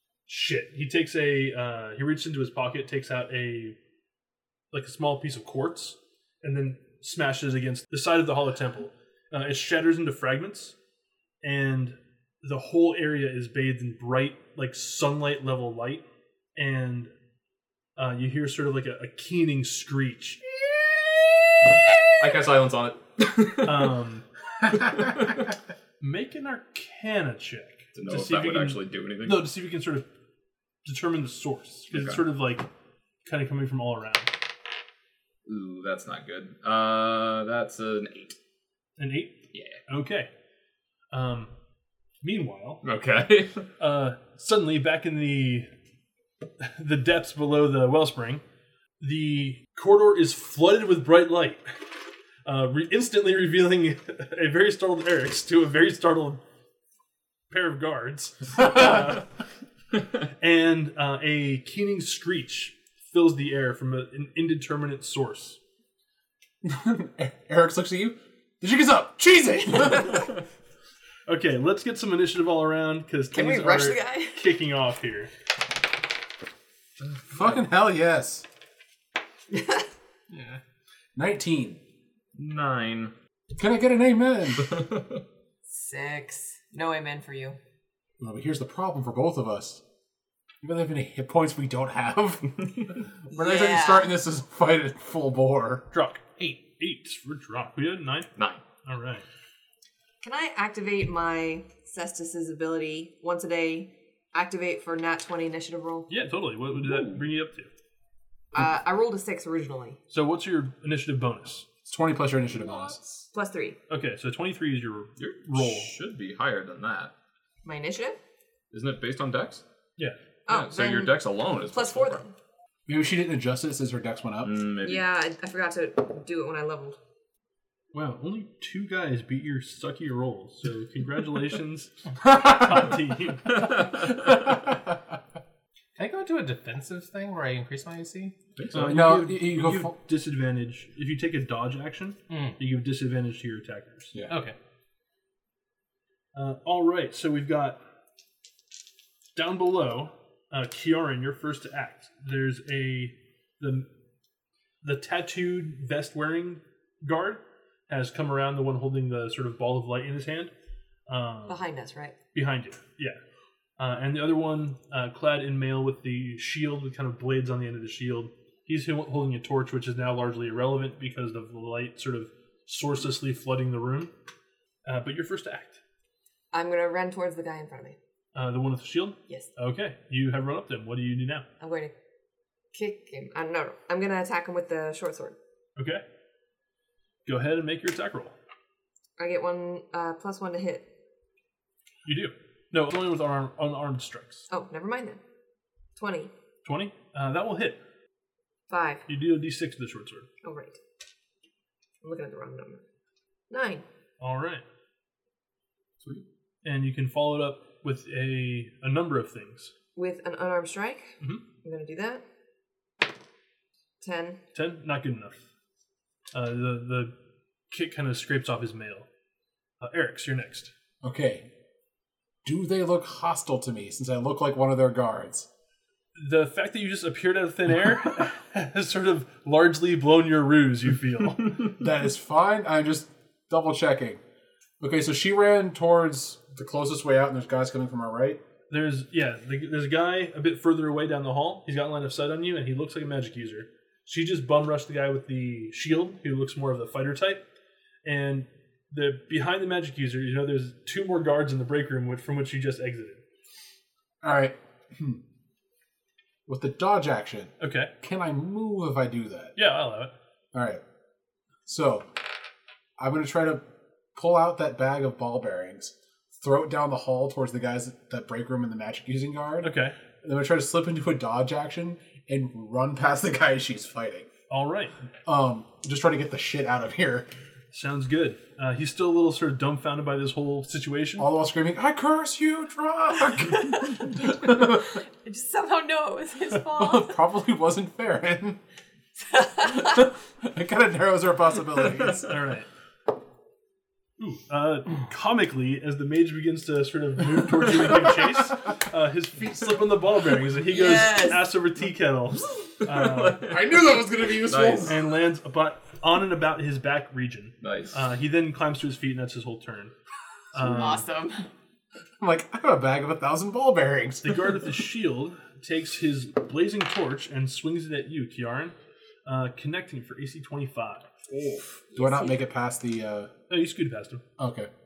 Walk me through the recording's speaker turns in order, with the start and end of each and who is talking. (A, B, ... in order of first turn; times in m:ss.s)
0:00.3-0:03.8 A
0:04.7-0:10.7 A
0:11.4-0:16.0 A
0:16.6-0:17.1 A
0:18.0-0:20.4 A
0:22.2-0:23.9 B
0:23.6-0:24.2 A
0:24.7-0:25.5 B
0:26.0-0:30.0 A
0:27.9-0:29.5 B
0:30.8-0:32.7 A
0:31.9-0:32.2 B
0:33.2-0:34.3 A
0:35.4-0:38.4 B
0:39.0-0:40.3 A
0:39.5-0:39.8 B
0:41.1-0:41.5 A
0:42.2-0:42.8 A
0:42.8-0:43.7 B
0:43.8-0:45.7 A
0:46.6-0:48.4 A
0:49.0-0:51.8 A
0:52.4-0:56.4 A
0:57.5-0:59.2 A
1:00.4-1:05.6 A
1:06.6-1:10.3 C
1:11.3-1:15.3 A
1:13.3-1:14.4 D
1:17.0-1:17.4 B
1:17.3-1:18.4 C
1:19.5-1:19.8 D
1:20.3-1:20.6 E
1:21.1-1:21.8 C
1:22.3-1:23.1 B
1:23.5-1:24.8 C
1:24.6-1:25.2 B
1:25.7-1:27.6 D
1:28.2-1:29.8 C
1:30.6-1:35.8 C
1:33.3-1:34.1 D
1:35.9-1:38.3 A
1:38.4-1:38.6 B
1:38.8-1:39.2 A
1:40.2-1:46.1 D
1:46.1-1:47.7 A
1:46.8-1:47.3 B
1:48.5-1:50.0 D
1:50.1-1:51.6 A
1:51.9-1:53.2 C
1:53.3-1:53.8 D
1:53.9-1:55.9 A
1:55.2-1:57.1 B
1:57.6-1:58.2 D
1:58.7-1:59.6 B
2:00.5-2:02.3 D
2:00.5-2:02.2 B
2:02.9-2:04.6 C
2:04.4-2:05.0 B
2:04.8-2:07.0 D
2:07.9-2:13.6 A
2:12.2-2:12.9 C
2:13.5-2:14.1 B
2:14.2-2:14.8 C
2:16.0-2:18.3 E
2:18.6-2:19.0 B
2:18.7-2:24.1 A
2:18.8-2:19.9 C
2:22.3-2:22.6 E
2:24.3-2:24.5 E
2:26.3-2:27.8 A
2:29.4-2:33.9 A
2:34.8-2:40.5 A
2:41.1-2:41.6 A
2:41.5-2:42.2 D
2:42.3-2:43.2 A
2:43.8-2:54.1 A
2:54.8-2:55.8 A
2:56.5-2:58.0 D
2:58.3-3:01.5 A
3:01.6-3:01.9 D
3:02.7-3:05.4 D
3:05.8-3:06.0 A
3:07.2-3:08.4 A
3:09.2-3:10.9 D
3:12.0-3:14.5 A
3:14.5-3:15.2 D
3:16.0-3:16.3 D
3:16.6-3:17.8 A
3:18.7-3:19.0 D
3:19.1-3:20.3 A
3:20.4-3:20.8 D
3:22.0-3:22.8 D
3:23.5-3:23.8 D
3:24.2-3:24.6 A
3:26.6-3:29.7 A
3:30.0-3:32.2 D
3:34.0-3:34.4 D
3:34.5-3:35.4 A
3:36.3-3:37.1 A
3:37.7-3:39.1 A
3:39.8-3:40.7 A
3:41.0-3:41.5 C
3:42.4-3:45.5 C
3:46.2-3:51.7 A
3:51.8-3:54.2 C
3:54.8-3:58.4 C
3:58.7-4:07.4 A
4:08.0-4:13.2 A
4:14.2-4:15.2 C
4:16.4-4:19.6 C
4:17.6-4:17.9 A
4:19.6-4:20.1 A
4:20.5-4:20.8 C
4:21.6-4:22.1 C
4:23.0-4:23.6 C
4:24.1-4:34.3 C
4:29.6-4:30.0 A
4:34.5-4:34.9 A
4:35.2-4:37.3 C
4:37.7-4:41.3 A
4:41.2-4:45.0 C
4:43.6-4:47.2 D
4:46.6-4:48.6 C
4:49.2-4:50.1 D
4:49.7-4:52.3 C
4:52.2-4:52.7 A
4:54.2-5:03.5 A
5:00.7-5:01.4 D
5:02.8-5:04.9 B
5:03.5-5:05.0 C
5:04.8-5:09.9 A
5:07.6-5:08.0 B
5:10.5-5:11.0 A
5:10.6-5:11.4 D
5:12.2-5:14.6 C
5:14.2-5:21.1 A
5:21.3-5:21.8 B
5:21.9-5:22.4 D
5:21.9-5:23.3 C
5:23.5-5:24.2 A
5:24.4-5:24.7 C